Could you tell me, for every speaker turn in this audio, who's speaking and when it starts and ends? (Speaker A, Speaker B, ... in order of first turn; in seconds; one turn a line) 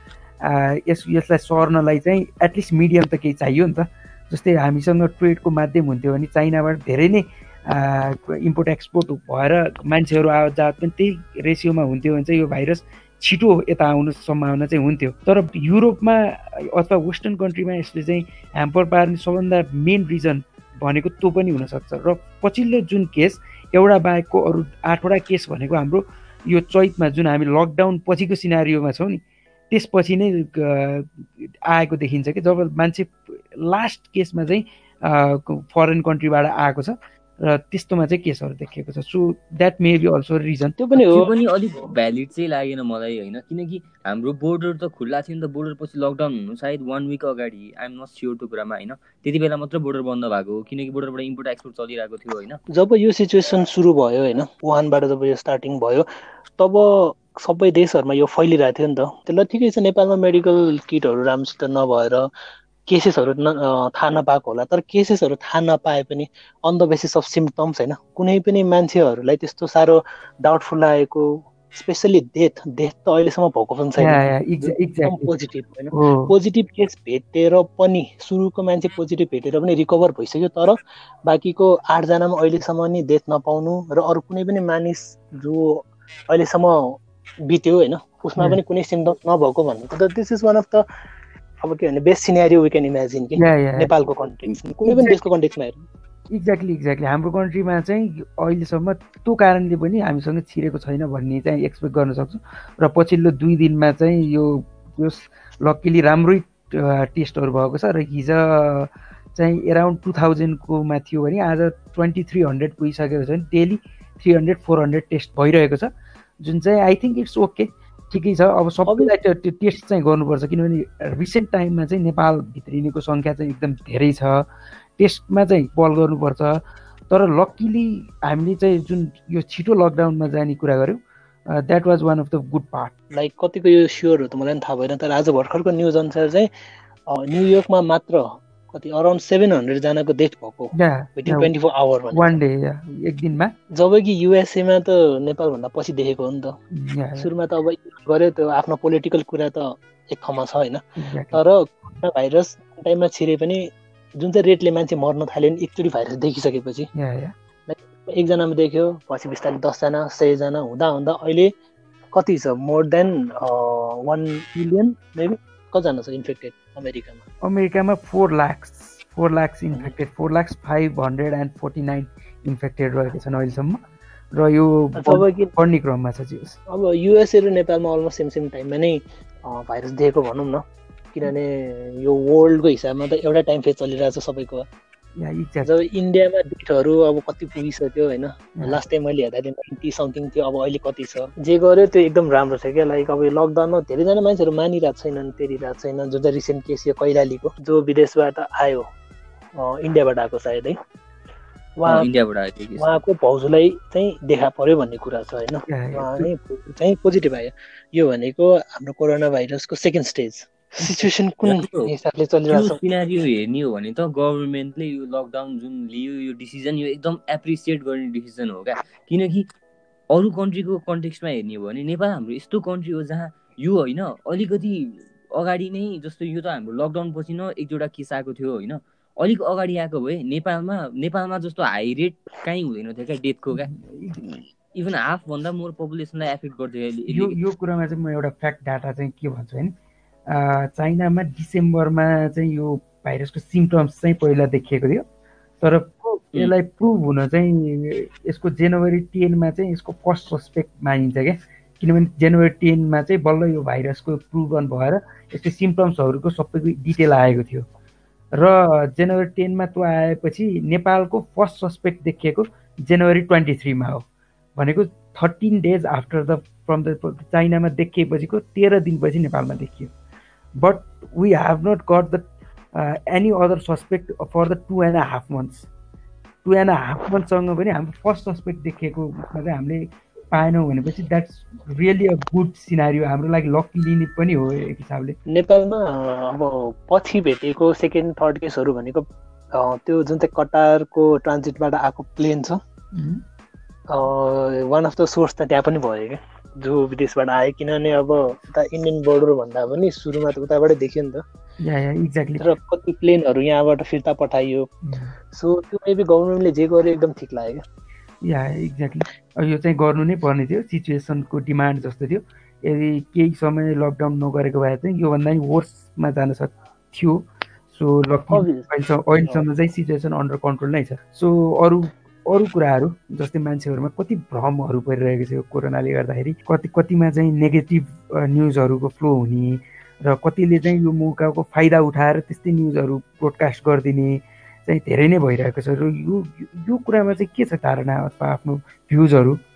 Speaker A: 0.4-40.8
Speaker B: 40.8-41.3
Speaker C: 40.9-52.6
Speaker B: 52.7-56.0
Speaker B: 56.6-62.3
Speaker B: 62.9-90.8
Speaker A: 74.0-75.3
Speaker A: 75.9-76.3
Speaker B: 91.6-95.8
Speaker A: 93.4-93.9
Speaker A: 94.5-95.2
Speaker A: 96.3-124.5
Speaker B: 118.8-119.1
Speaker A: 125.0-132.9
Speaker B: 133.1-136.5
Speaker B: 137.1-142.4
Speaker A: 140.7-141.5
Speaker A: 142.1-143.5
Speaker B: 143.8-146.6
Speaker A: 146.7-147.3
Speaker B: 147.2-156.9
Speaker A: 151.0-151.4
Speaker A: 156.9-157.3
Speaker B: 157.7-161.5
Speaker B: 162.1-167.2
Speaker A: 167.4-173.8
Speaker A: 174.3-176.6
Speaker B: 174.9-175.5
Speaker B: 176.7-184.6
Speaker A: 185.2-185.7
Speaker B: 185.6-198.9
Speaker B: 199.6-200.8
Speaker B: 201.8-202.1
Speaker C: 201.8-203.0
Speaker B: 202.8-212.8
Speaker A: 205.7-206.3
Speaker C: 211.4-211.9
Speaker C: 212.5-219.4
Speaker C: 220.1-233.7
Speaker A: 233.5-234.2
Speaker C: 234.7-237.3
Speaker A: 237.1-239.7
Speaker A: 240.3-245.0
Speaker A: 245.6-257.7
Speaker A: 258.3-264.1
Speaker A: 264.6-269.9
Speaker A: 270.6-275.7
Speaker A: 276.4-285.2
Speaker B: 285.3-292.6
Speaker A: 292.9-293.2
Speaker B: 293.9-301.2
Speaker A: 301.6-302.5
Speaker B: 302.4-304.7
Speaker A: 304.8-305.1
Speaker B: 305.3-307.6
Speaker A: 308.2-339.4
Speaker B: 318.3-319.4